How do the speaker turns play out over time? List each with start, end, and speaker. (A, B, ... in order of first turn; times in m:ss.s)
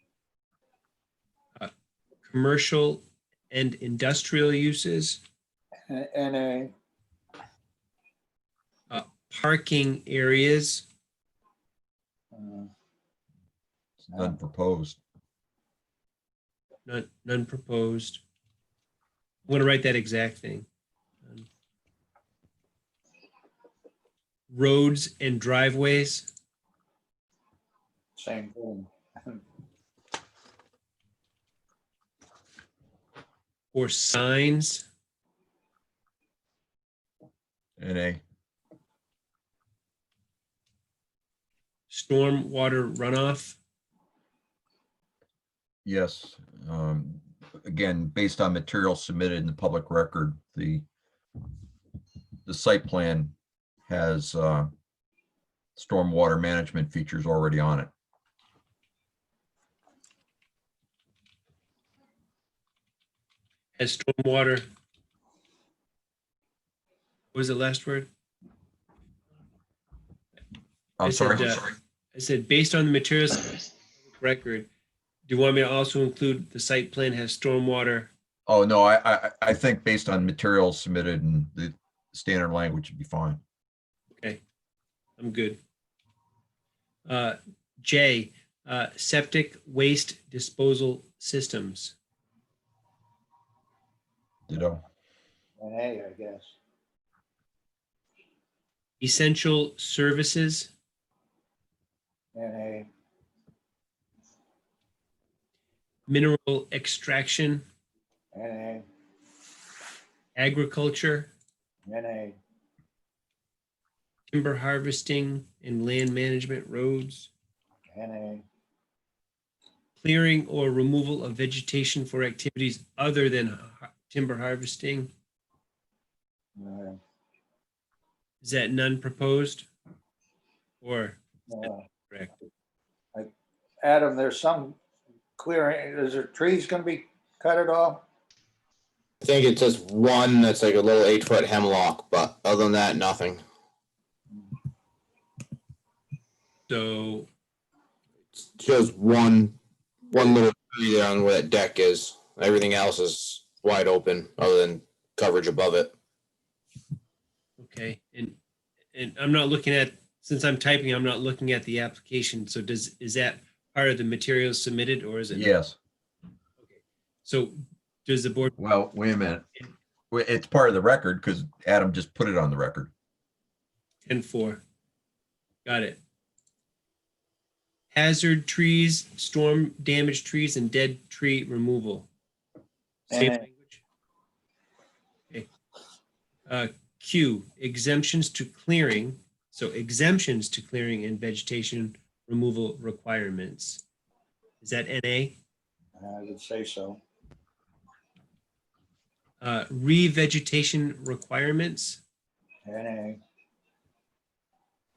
0:02.2-0:05.2 A
0:05.9-0:06.7 B
0:08.9-0:10.9 A
0:12.3-0:12.7 B
0:14.0-0:15.0 C
0:16.9-0:18.2 A
0:19.5-0:20.7 A
0:24.5-0:26.3 A
0:28.2-0:29.4 B
0:33.7-0:34.8 A
0:37.8-0:38.2 C
0:41.9-0:43.6 A
0:45.8-0:50.8 C
0:52.4-0:53.3 C
0:53.9-0:54.7 C
0:55.8-0:57.9 C
1:03.8-1:04.6 A
1:07.3-1:08.1 A
1:11.0-1:11.7 C
1:11.0-1:14.7 A
1:15.3-1:18.1 A
1:18.5-1:23.4 C
1:25.2-1:25.6 A
1:27.0-1:31.9 A
1:34.5-1:34.8 C
1:35.6-1:36.6 B
1:39.0-1:40.7 A
1:42.3-1:42.9 B
1:46.1-1:47.6 A
1:48.3-1:48.8 B
1:50.3-1:51.3 A
1:51.9-1:52.4 B
1:54.3-1:57.3 A
1:57.9-1:58.4 B
2:00.0-2:05.1 A
2:06.6-2:07.0 B
2:08.4-2:09.7 A
2:10.8-2:12.3 A
2:11.5-2:11.8 B
2:13.8-2:14.8 B
2:15.4-2:18.0 B
2:19.2-2:23.4 D
2:26.7-2:27.3 A
2:28.5-2:29.6 D
2:30.1-2:35.9 D
2:37.6-2:38.4 A
2:38.9-2:45.5 A
2:45.3-2:45.8 C
2:46.6-2:48.5 A
2:48.6-2:49.5 C
2:50.1-2:52.9 C
2:54.1-2:54.6 A
2:55.6-2:56.0 A
2:57.9-3:02.1 A
3:03.1-3:03.8 A
3:03.1-3:03.4 B
3:06.5-3:13.8 A
3:14.6-3:15.4 A
3:16.0-3:17.0 B
3:19.4-3:22.0 A
3:22.6-3:23.2 B